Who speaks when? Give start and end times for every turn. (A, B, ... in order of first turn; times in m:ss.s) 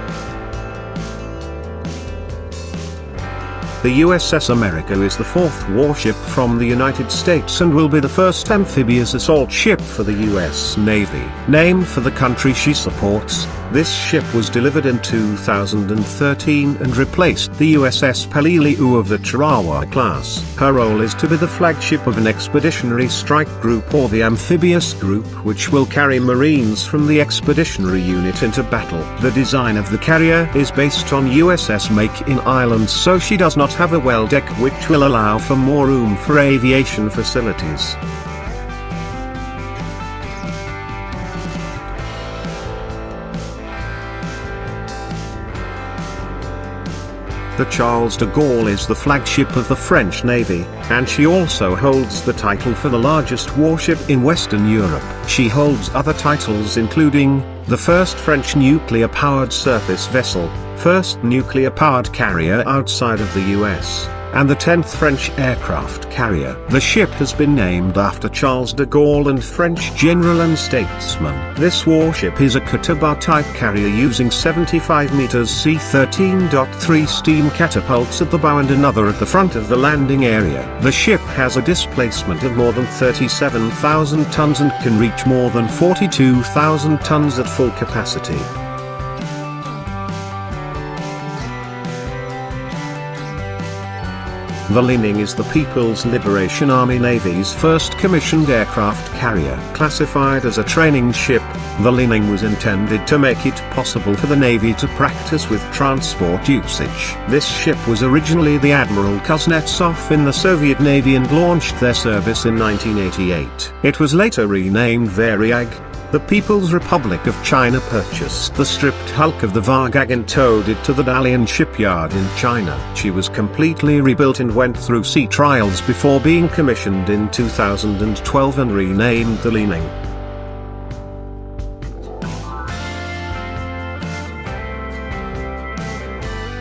0:03.8-0:38.0 A
0:47.6-1:28.5 A
1:34.7-2:09.9 A